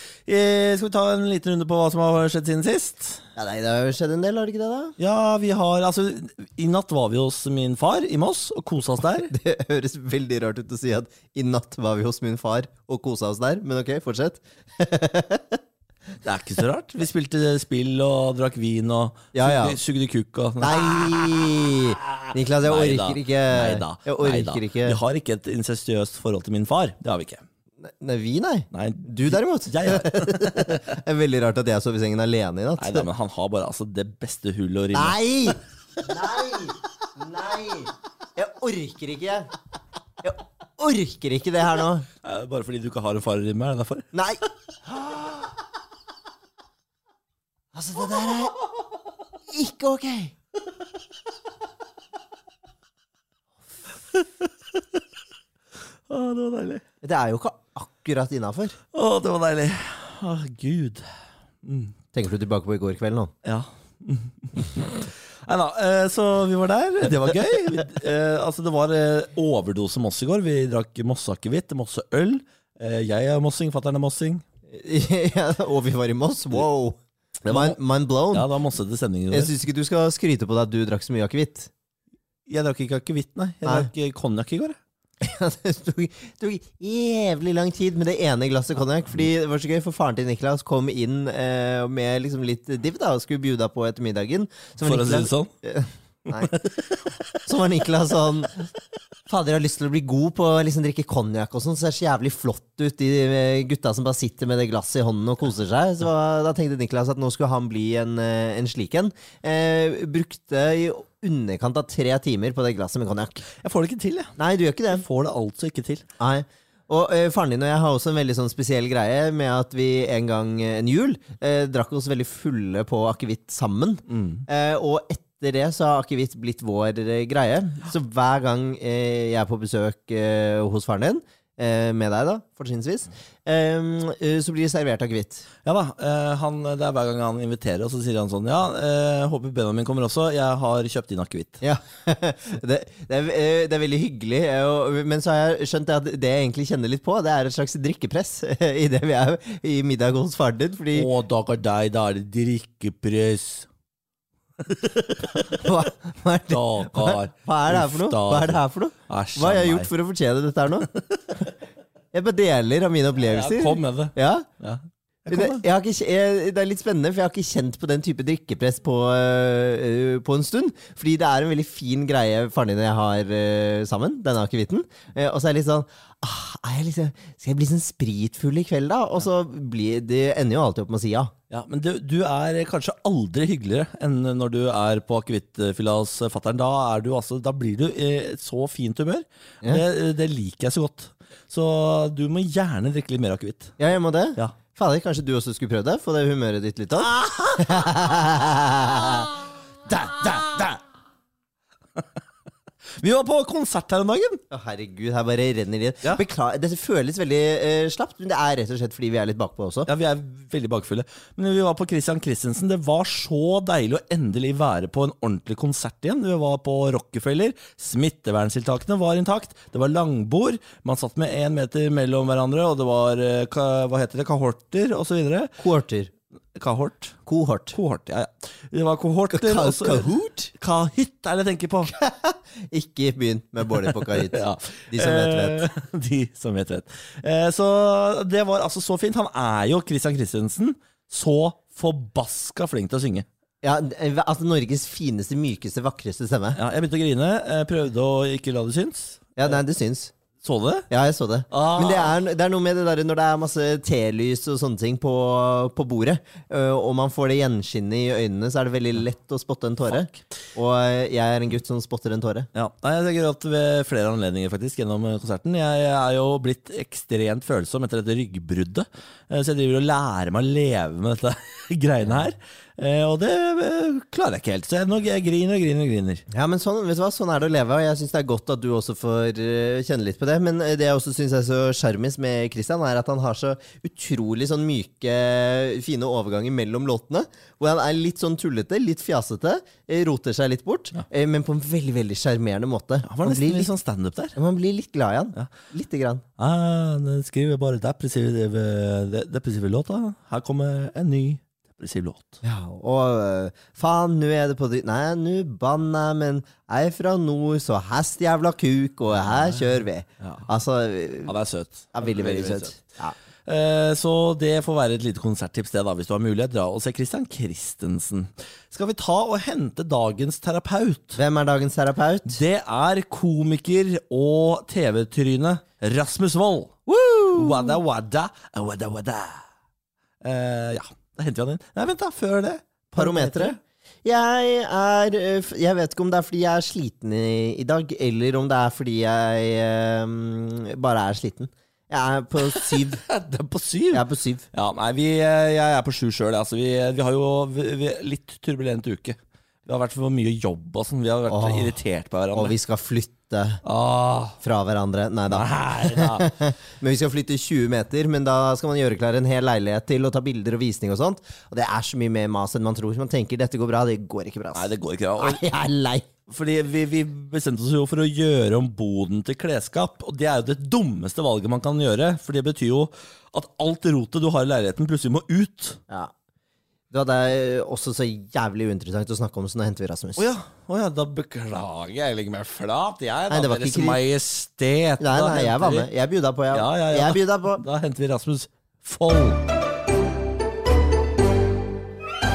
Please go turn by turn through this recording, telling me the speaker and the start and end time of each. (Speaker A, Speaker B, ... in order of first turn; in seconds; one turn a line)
Speaker A: 0.3-3.2
Speaker B: 3.4-5.0
Speaker A: 5.0-9.3
Speaker B: 9.3-15.6
Speaker A: 16.2-27.4
Speaker B: 19.3-19.8
Speaker B: 20.6-25.0
Speaker B: 27.8-33.1
Speaker A: 28.7-30.9
Speaker A: 32.8-35.2
Speaker B: 34.9-39.5
Speaker B: 40.2-42.1
Speaker A: 42.2-44.1
Speaker B: 44.1-44.4
Speaker B: 47.7-48.6
Speaker B: 49.5-50.3
Speaker A: 56.1-56.8
Speaker B: 57.0-58.8
Speaker A: 58.9-61.1
Speaker A: 61.6-61.9
Speaker B: 62.1-63.3
Speaker A: 63.4-74.4
Speaker B: 74.7-78.5
Speaker A: 77.5-77.8
Speaker A: 78.3-79.5
Speaker B: 79.3-81.7
Speaker A: 82.5-84.8
Speaker B: 83.6-83.9
Speaker B: 85.2-96.5
Speaker A: 94.8-95.5
Speaker A: 96.3-97.4
Speaker B: 97.5-98.7
Speaker B: 99.3-113.5
Speaker A: 113.6-114.3
Speaker B: 114.4-115.0
Speaker A: 114.9-116.1
Speaker B: 116.2-135.5
Speaker A: 124.1-124.5
Speaker A: 135.7-141.6
Speaker B: 141.6-151.1
Speaker A: 150.9-153.7
Speaker A: 154.6-155.6
Speaker B: 155.5-160.9
Speaker A: 156.5-159.9
Speaker B: 162.1-164.5
Speaker A: 163.2-165.6
Speaker B: 165.3-181.3
Speaker A: 181.5-193.8
Speaker B: 193.8-199.3
Speaker A: 197.0-197.9
Speaker A: 199.9-200.8
Speaker A: 203.0-204.4
Speaker B: 204.5-209.9
Speaker A: 209.9-225.6
Speaker B: 225.6-226.1
Speaker A: 226.6-227.2
Speaker B: 227.3-227.8
Speaker A: 227.7-231.9
Speaker B: 229.3-230.5
Speaker B: 232.0-235.7
Speaker A: 234.2-243.3
Speaker B: 243.6-246.6
Speaker A: 246.6-249.2
Speaker B: 249.4-250.1
Speaker A: 250.4-250.9
Speaker B: 250.9-262.5
Speaker A: 251.5-252.1
Speaker A: 262.5-276.2
Speaker B: 276.3-293.7
Speaker A: 293.0-294.4
Speaker B: 294.4-296.2
Speaker A: 296.4-302.4
Speaker B: 302.4-311.3
Speaker A: 311.3-312.8
Speaker B: 311.9-313.1
Speaker A: 313.4-321.2
Speaker B: 321.2-322.4
Speaker A: 322.3-326.8
Speaker B: 326.9-327.8
Speaker A: 327.3-329.4
Speaker A: 330.2-333.6
Speaker B: 332.9-343.0
Speaker A: 342.4-352.5
Speaker B: 343.9-344.5
Speaker B: 351.3-351.8
Speaker B: 352.4-353.6
Speaker A: 353.6-354.4
Speaker B: 354.4-366.1
Speaker A: 355.3-356.3
Speaker A: 364.5-365.4
Speaker A: 366.3-375.8
Speaker B: 376.9-380.2
Speaker A: 380.2-385.9
Speaker B: 383.3-384.0
Speaker B: 385.0-387.6
Speaker A: 386.5-389.4